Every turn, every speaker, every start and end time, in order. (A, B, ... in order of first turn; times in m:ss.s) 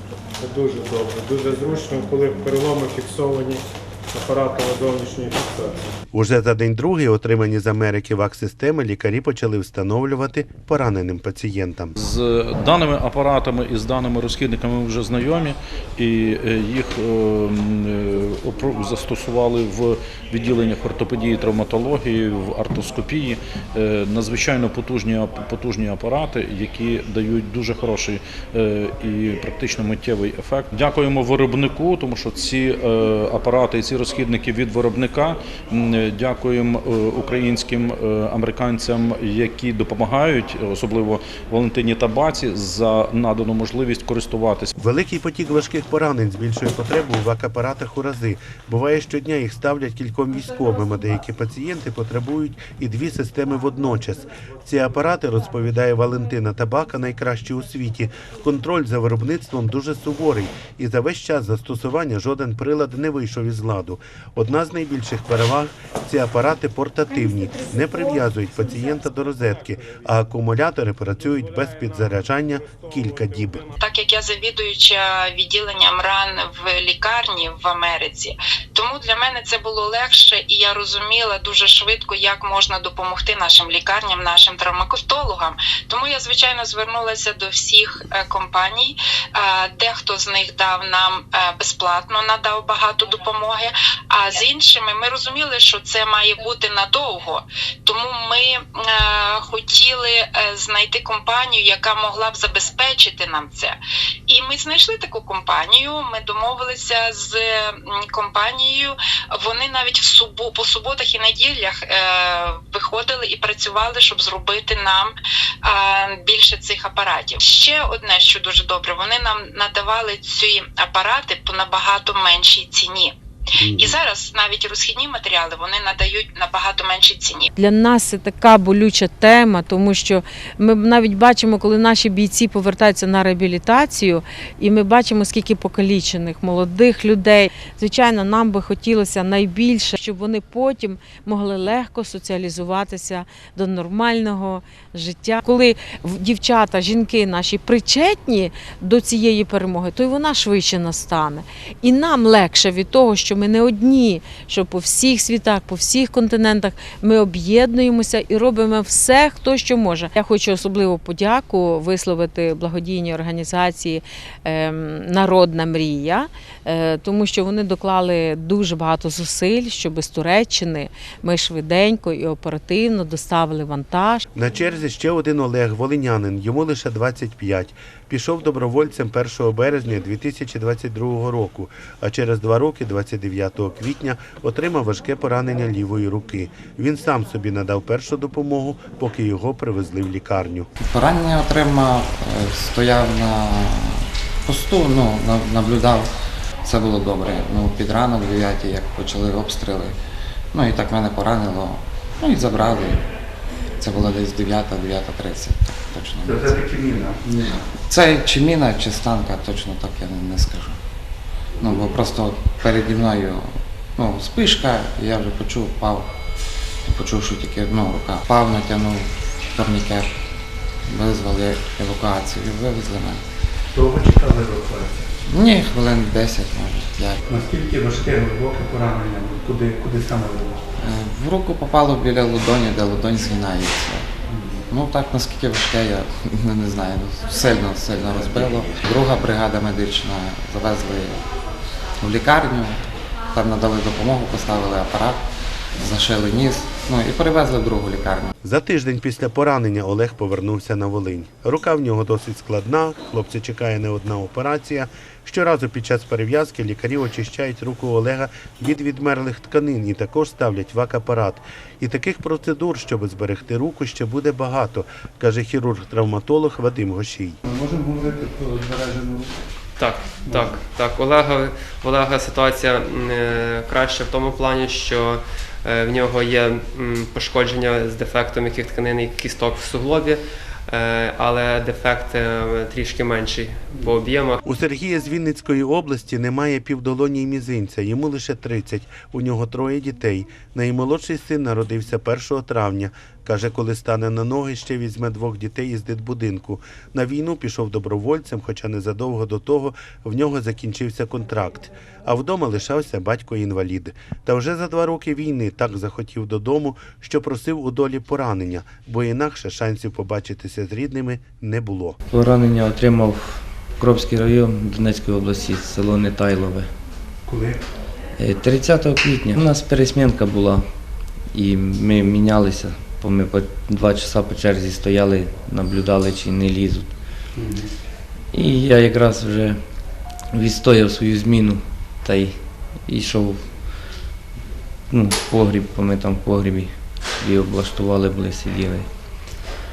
0:00.4-0:05.8 A
0:06.1-0:12.0 B
0:12.0-0:44.7 C
0:44.8-1:13.6 B
1:09.2-1:10.0 A
1:11.2-1:13.7 A
1:13.8-1:43.8 D
1:44.3-1:55.2 D
1:55.7-2:03.2 D
2:03.6-2:03.9 B
2:04.0-2:07.5 D
2:07.6-2:54.3 E
2:54.3-3:10.7 B
3:10.8-3:16.1 F
3:16.6-3:20.0 F
3:20.5-3:23.0 F
3:23.8-3:26.7 F
3:27.5-3:30.8 F
3:31.6-3:36.2 F
3:36.8-3:40.1 F
3:40.9-3:43.2 F
3:43.8-3:45.0 B
3:45.3-3:47.2 F
3:47.5-3:50.4 B
3:50.8-3:54.1 F
3:54.7-4:01.2 F
4:02.0-4:05.2 F
4:05.8-4:08.3 F
4:08.4-4:27.4 B
4:29.8-4:44.4 G
4:44.4-5:12.0 B
5:12.1-5:16.7 H
5:18.2-5:20.6 H
5:21.3-5:26.9 H
5:28.3-5:29.6 H
5:30.4-5:32.3 H
5:32.9-5:33.4 H
5:34.9-5:36.7 H
5:37.2-5:38.9 H